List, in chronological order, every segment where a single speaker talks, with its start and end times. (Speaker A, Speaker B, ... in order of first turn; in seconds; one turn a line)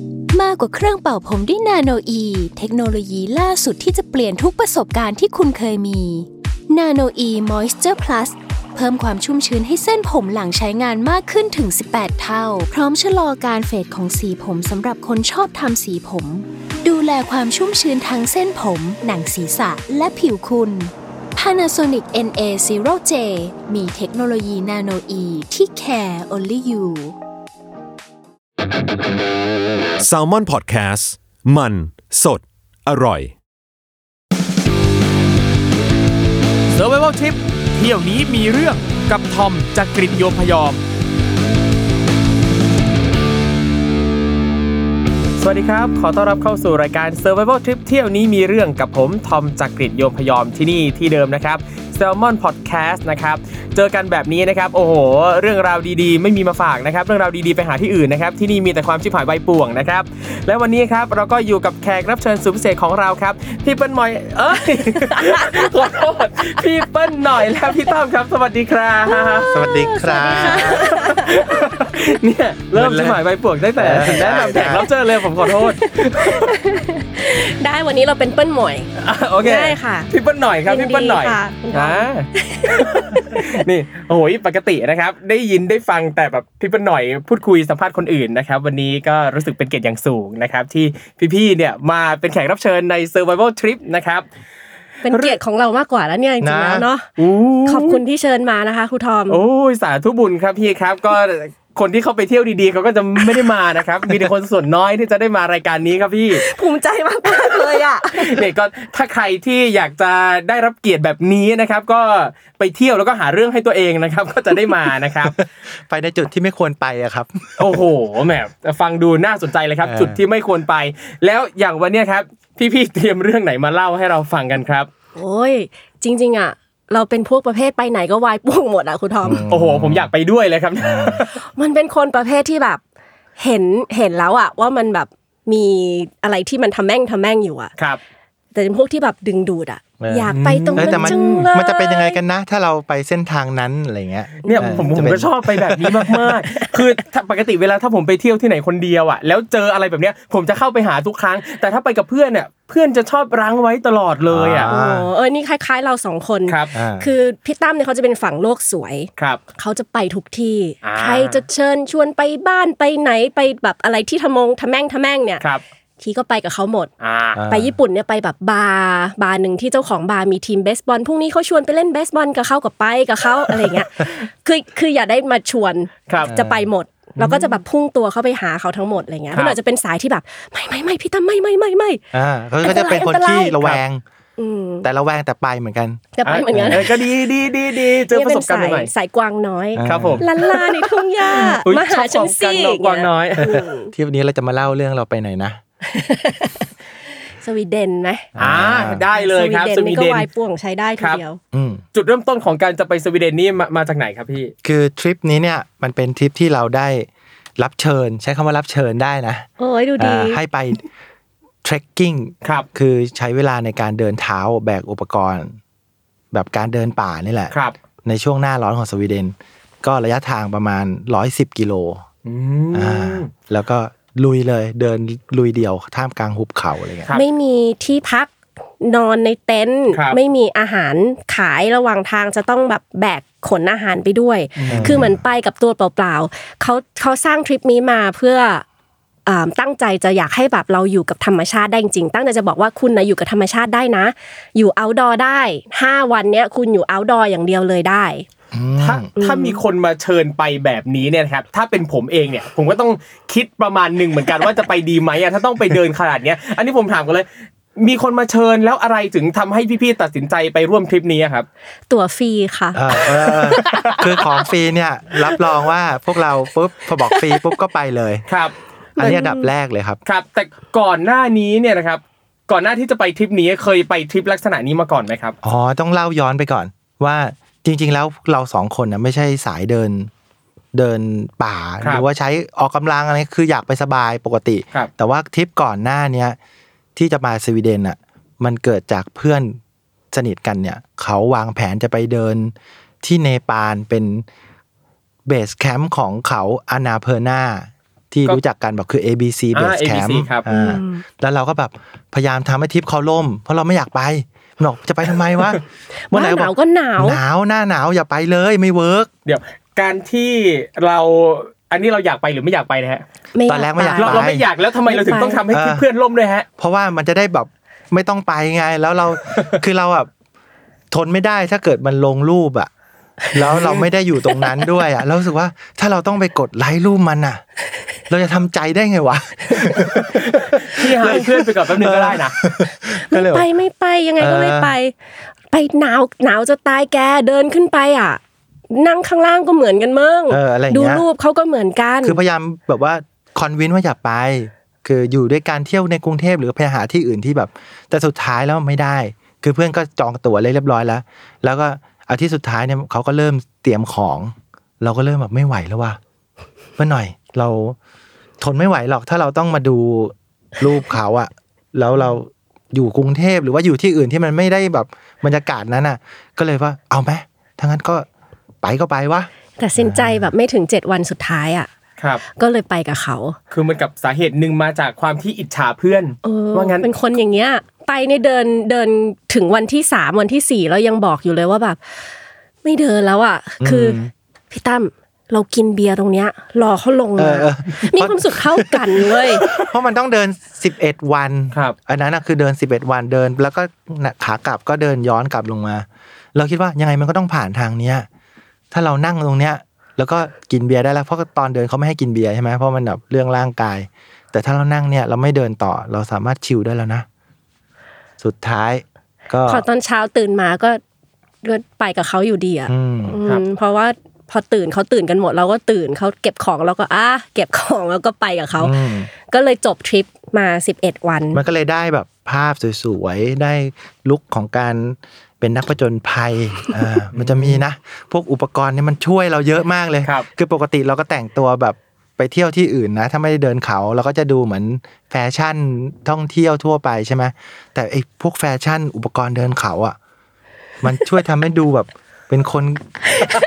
Speaker A: 0.3-27.2
Speaker B: 30.0-33.4
Speaker C: 36.7-40.8
Speaker C: 45.4-69.5
Speaker D: 65.2-65.5
Speaker D: 69.2-71.8
Speaker E: 69.5-70.9
Speaker C: 70.3-76.6
Speaker E: 72.8-73.2
Speaker E: 73.8-74.9
Speaker D: 75.8-78.9
Speaker C: 79.0-94.3
Speaker D: 79.4-80.1
Speaker D: 80.7-83.6
Speaker D: 95.0-97.1
Speaker C: 95.1-95.4
Speaker E: 96.4-96.9
Speaker C: 97.2-98.0
Speaker D: 97.7-99.4
Speaker C: 99.3-106.4
Speaker D: 106.3-108.5
Speaker C: 108.1-115.4
Speaker E: 115.4-117.7
Speaker C: 117.6-124.9
Speaker E: 119.8-120.2
Speaker D: 125.2-129.4
Speaker E: 129.2-130.1
Speaker C: 129.5-131.3
Speaker E: 130.8-131.2
Speaker D: 131.3-132.8
Speaker D: 133.4-137.7
Speaker D: 138.6-142.2
Speaker E: 140.0-146.3
Speaker C: 140.3-141.5
Speaker D: 144.4-145.1
Speaker C: 144.4-154.7
Speaker E: 154.3-155.1
Speaker D: 154.6-165.4
Speaker C: 156.5-156.7
Speaker E: 156.7-157.1
Speaker C: 160.8-161.4
Speaker D: 166.0-166.9
Speaker C: 167.0-167.4
Speaker E: 167.3-167.8
Speaker D: 167.5-182.0
Speaker E: 176.2-176.7
Speaker E: 182.1-184.0
Speaker D: 182.6-183.8
Speaker D: 184.4-184.9
Speaker E: 184.8-186.8
Speaker D: 186.2-187.0
Speaker C: 186.2-188.9
Speaker D: 188.1-193.9
Speaker E: 189.8-190.2
Speaker C: 189.8-193.6
Speaker E: 193.4-195.6
Speaker D: 195.9-196.7
Speaker D: 197.4-198.3
Speaker E: 198.4-199.0
Speaker C: 198.4-200.3
Speaker D: 199.1-201.4
Speaker E: 201.5-201.8
Speaker C: 201.9-204.5
Speaker E: 204.6-210.9
Speaker D: 209.6-210.4
Speaker E: 211.6-215.6
Speaker E: 216.3-222.0
Speaker C: 222.2-223.3
Speaker E: 222.7-227.1
Speaker D: 227.1-238.6
Speaker C: 229.9-230.2
Speaker C: 234.6-235.0
Speaker E: 234.7-235.2
Speaker D: 239.3-248.3
Speaker E: 248.5-249.1
Speaker C: 248.8-261.5
Speaker D: 249.2-249.6
Speaker D: 261.9-264.1
Speaker E: 262.8-268.3
Speaker C: 263.7-263.9
Speaker D: 267.1-267.4
Speaker C: 268.3-269.1
Speaker E: 269.0-270.0
Speaker D: 269.0-269.5
Speaker C: 270.1-275.4
Speaker E: 275.4-280.1
Speaker E: 280.7-286.4
Speaker E: 287.0-289.6
Speaker E: 290.1-294.2
Speaker E: 295.3-305.6
Speaker C: 299.5-300.4
Speaker D: 300.5-301.0
Speaker D: 306.1-307.2
Speaker E: 306.1-309.1
Speaker C: 309.3-313.0
Speaker D: 313.3-314.3
Speaker E: 313.5-314.5
Speaker C: 314.0-316.5
Speaker D: 314.9-315.4
Speaker E: 315.5-315.9
Speaker E: 316.6-320.1
Speaker E: 320.9-322.7
Speaker E: 323.3-327.4
Speaker C: 323.4-323.9
Speaker E: 328.1-333.4
Speaker C: 330.5-332.4
Speaker D: 333.1-334.9
Speaker E: 334.2-334.8
Speaker D: 335.5-338.2
Speaker D: 338.7-342.2
Speaker E: 340.3-341.1
Speaker E: 342.0-356.0
Speaker E: 356.8-357.8
Speaker E: 358.4-368.1
Speaker E: 368.6-370.2
Speaker D: 369.6-371.7
Speaker D: 372.3-373.4
Speaker C: 373.5-376.9
Speaker D: 376.2-381.8
Speaker D: 382.6-389.5
Speaker E: 383.6-384.1
Speaker E: 387.2-398.1
Speaker E: 398.7-407.1
Speaker E: 408.2-409.6
Speaker D: 409.5-410.8
Speaker D: 411.4-421.4
Speaker E: 412.7-413.2
Speaker E: 418.6-419.1
Speaker E: 421.3-440.0
Speaker C: 427.1-427.6
Speaker E: 440.8-443.3